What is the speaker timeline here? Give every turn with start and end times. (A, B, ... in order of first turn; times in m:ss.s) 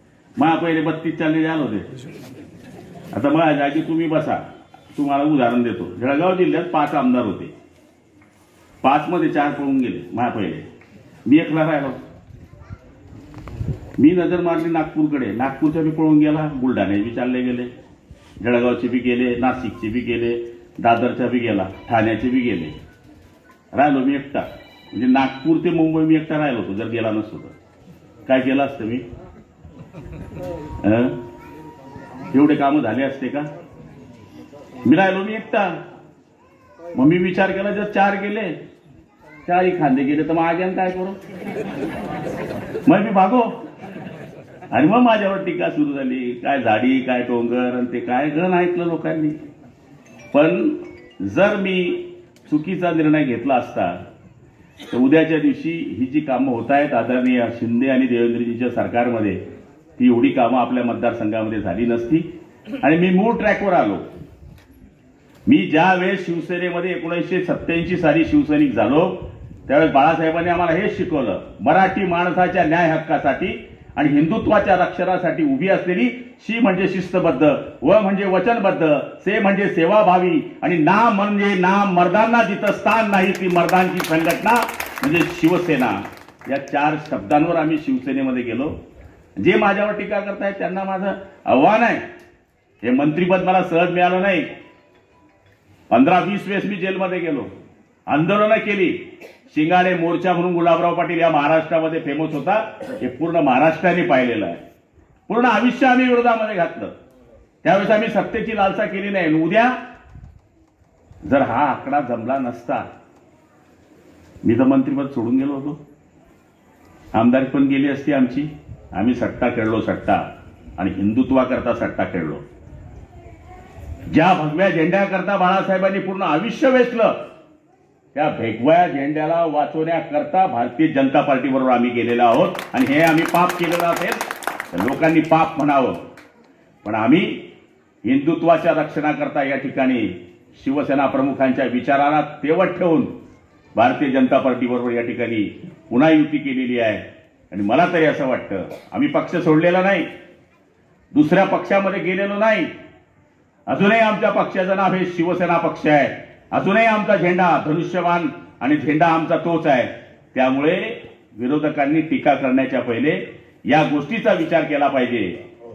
0:00.4-0:01.9 A
0:03.1-0:04.4 A
0:04.9-0:07.5 A
0:08.8-0:10.6 A
0:11.3-0:12.0 A
0:14.0-0:17.7 A
0:18.4-0:22.8 A
0:23.7-0:27.5 A
0:28.3-0:29.0 A
0:30.8-0:31.2 A
0:32.3-0:33.5 A
0:34.8-0:35.8 A
0:36.9-0:38.6 A
0:39.5-0:41.2 A
0:42.9-0:43.6 A
0:44.7-0:49.4 A
0:50.3-0:54.0 A
0:54.9-0:59.4 A
1:00.0-1:02.3 A
1:02.8-1:04.0 A
1:05.5-1:28.7 A
1:29.4-1:32.0 A
1:32.8-1:34.5 A
1:35.9-1:37.5 A
1:38.1-1:44.6 A
1:45.3-1:46.9 A
1:47.6-1:49.8 A
1:51.2-1:52.9 A
1:54.4-1:55.8 A
1:57.2-2:02.4 A
2:04.1-2:07.2 A
2:08.2-2:16.0 A
2:16.8-2:17.4 A
2:18.0-2:23.1 A
2:23.8-2:30.1 A
2:31.1-2:32.7 A
2:33.7-2:45.4 A